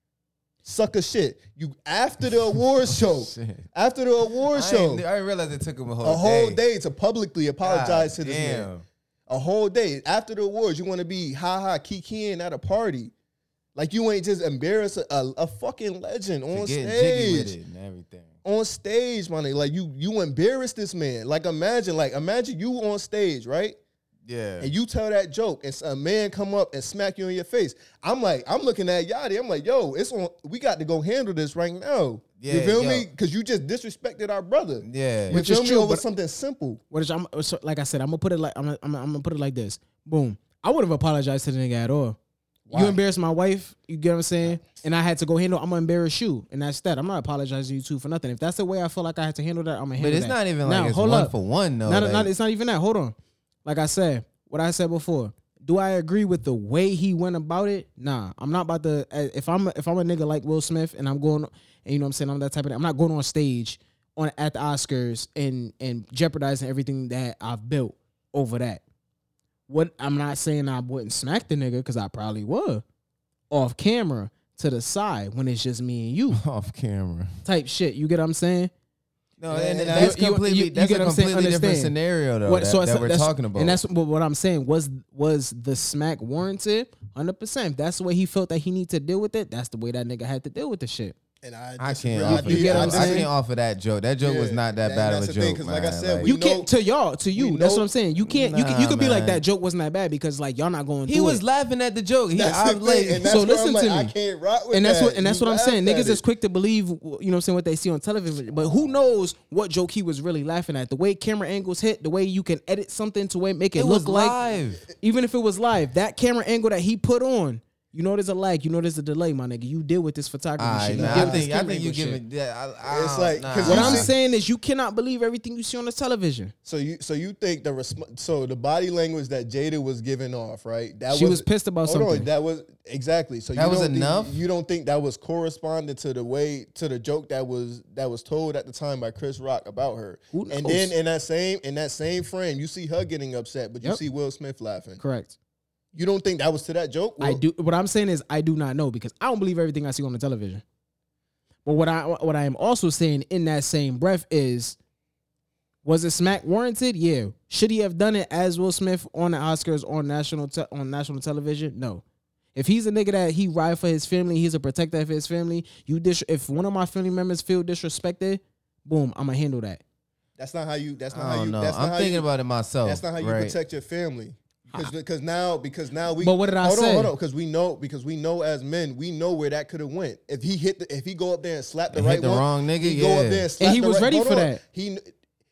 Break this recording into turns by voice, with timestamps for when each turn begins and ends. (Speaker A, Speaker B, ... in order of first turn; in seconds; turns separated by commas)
Speaker A: 0.6-5.0, Speaker B: 2.9-3.6, Speaker B: 4.5-6.6, Speaker A: 6.0-8.7, Speaker B: 7.6-8.8, Speaker A: 9.3-13.1, Speaker A: 13.8-17.6, Speaker B: 16.5-18.3, Speaker A: 18.4-23.8, Speaker B: 24.3-24.7, Speaker A: 24.6-36.8, Speaker B: 32.4-33.1, Speaker B: 34.8-35.4, Speaker C: 35.3-36.0, Speaker C: 36.9-42.2, Speaker A: 42.7-43.0, Speaker C: 42.7-51.4, Speaker B: 50.0-52.3, Speaker C: 51.9-68.8, Speaker C: 69.7-72.8, Speaker C: 73.5-76.4, Speaker B: 76.3-77.3, Speaker C: 77.4-78.7, Speaker B: 79.4-83.8, Speaker A: 79.5-80.2, Speaker C: 79.9-91.2, Speaker A: 91.4-93.3, Speaker B: 91.8-96.3, Speaker C: 92.2-93.3, Speaker A: 94.2-96.7, Speaker C: 96.2-101.4, Speaker A: 97.3-97.9, Speaker B: 98.3-99.4, Speaker B: 101.1-103.3, Speaker A: 102.3-106.2, Speaker C: 103.3-104.1, Speaker C: 104.7-114.4, Speaker B: 113.8-114.8, Speaker C: 115.0-122.2, Speaker B: 120.6-124.1, Speaker A: 120.9-121.5, Speaker A: 122.8-124.1, Speaker C: 123.6-126.5, Speaker A: 126.7-145.0, Speaker C: 131.1-132.3, Speaker B: 133.5-134.4, Speaker C: 140.3-140.9, Speaker C: 145.0-145.3, Speaker A: 145.9-147.4, Speaker C: 147.2-150.6, Speaker C: 151.7-154.8, Speaker C: 155.8-162.0, Speaker C: 162.6-169.8, Speaker A: 170.4-172.3, Speaker B: 171.1-173.6, Speaker A: 172.8-185.1, Speaker C: 176.2-177.1, Speaker B: 181.9-183.5, Speaker C: 183.6-184.6